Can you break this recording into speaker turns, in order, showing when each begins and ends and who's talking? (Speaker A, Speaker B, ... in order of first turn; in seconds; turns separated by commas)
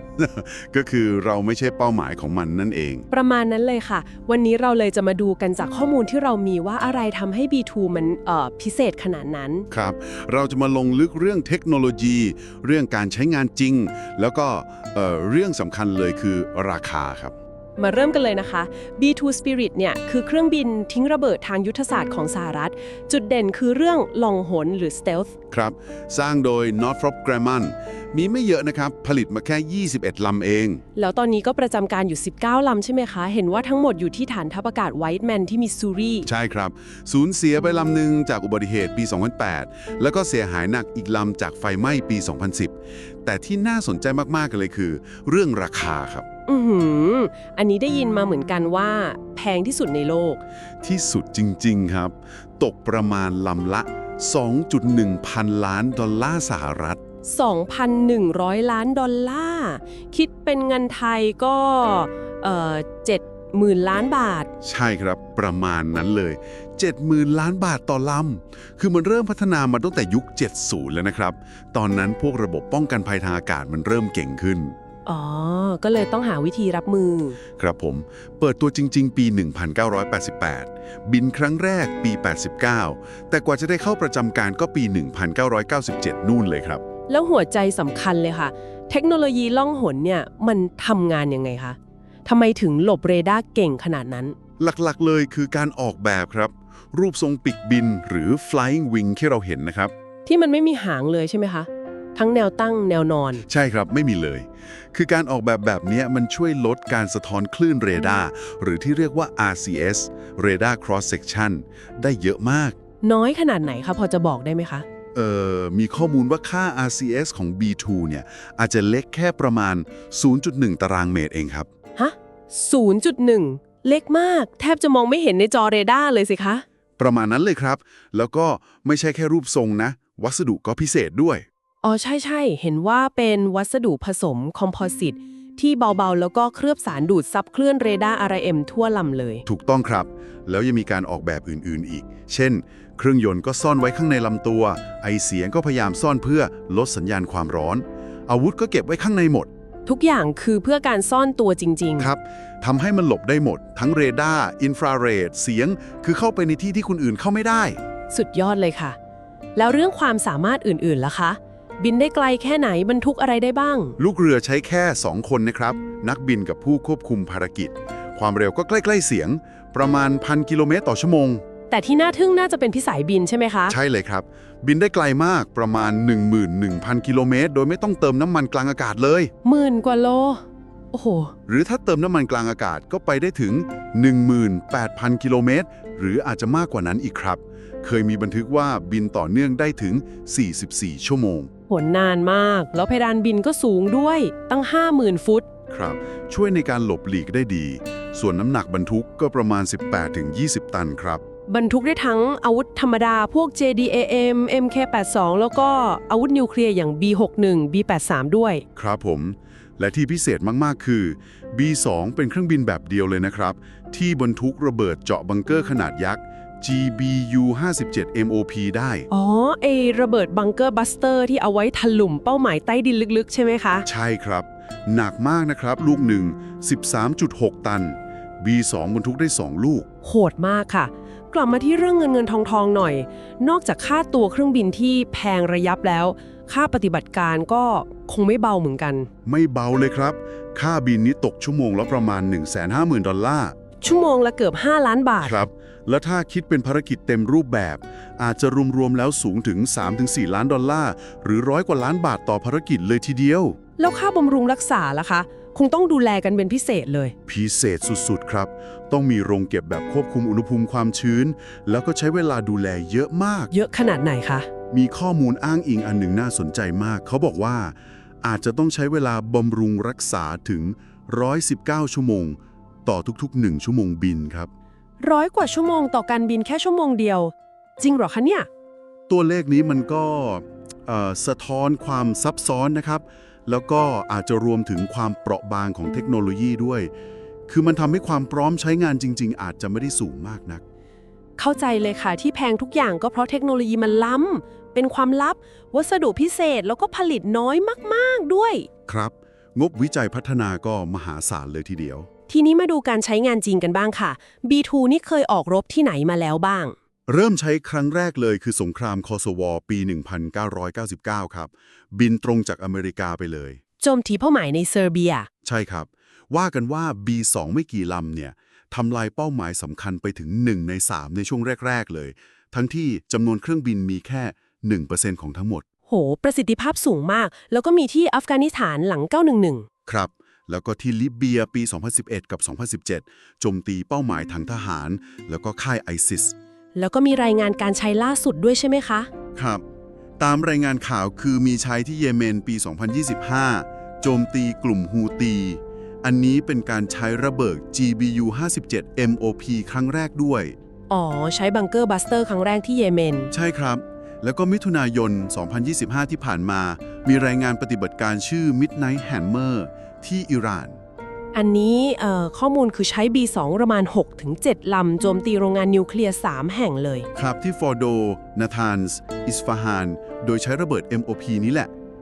Speaker A: 0.2-3.1, Speaker B: 3.1-9.7, Speaker A: 9.7-17.3, Speaker B: 17.8-25.3, Speaker A: 25.5-30.8, Speaker B: 30.9-36.3, Speaker A: 36.2-46.2, Speaker B: 46.5-50.4, Speaker A: 50.8-57.0, Speaker B: 57.2-64.5, Speaker A: 64.6-74.8, Speaker B: 75.0-77.4, Speaker A: 77.6-86.8, Speaker B: 87.1-94.3, Speaker A: 94.6-99.9, Speaker B: 100.2-103.4, Speaker A: 103.5-112.8, Speaker B: 113.0-114.8, Speaker A: 115.1-121.7, Speaker B: 122.0-126.6, Speaker A: 127.0-131.4, Speaker B: 131.8-139.4, Speaker A: 139.4-149.5, Speaker B: 149.8-152.1, Speaker A: 152.0-157.8, Speaker B: 158.1-159.0, Speaker B: 159.6-163.9, Speaker A: 164.0-171.4, Speaker B: 171.7-173.8, Speaker A: 173.7-179.3, Speaker B: 179.4-181.3, Speaker A: 181.5-191.5, Speaker B: 191.7-195.4, Speaker A: 195.7-201.2, Speaker B: 201.5-208.6, Speaker A: 208.8-219.1, Speaker B: 219.1-223.8, Speaker A: 223.8-229.9, Speaker B: 230.0-239.1, Speaker A: 239.2-243.5, Speaker B: 243.8-245.4, Speaker A: 245.2-253.6, Speaker B: 253.8-257.1, Speaker A: 257.3-263.5, Speaker B: 263.5-264.5, Speaker A: 264.7-274.5, Speaker B: 275.0-278.5, Speaker A: 279.1-286.9, Speaker A: 287.5-290.6, Speaker B: 291.4-298.7, Speaker A: 298.9-302.1, Speaker B: 302.3-306.7, Speaker A: 307.1-313.6, Speaker B: 313.8-315.3, Speaker A: 315.4-325.6, Speaker B: 325.9-329.7, Speaker A: 329.9-336.3, Speaker B: 336.7-339.1, Speaker A: 339.3-339.6, Speaker A: 340.2-350.6, Speaker B: 350.9-353.3, Speaker A: 353.3-360.8, Speaker B: 361.3-367.1, Speaker A: 367.1-371.7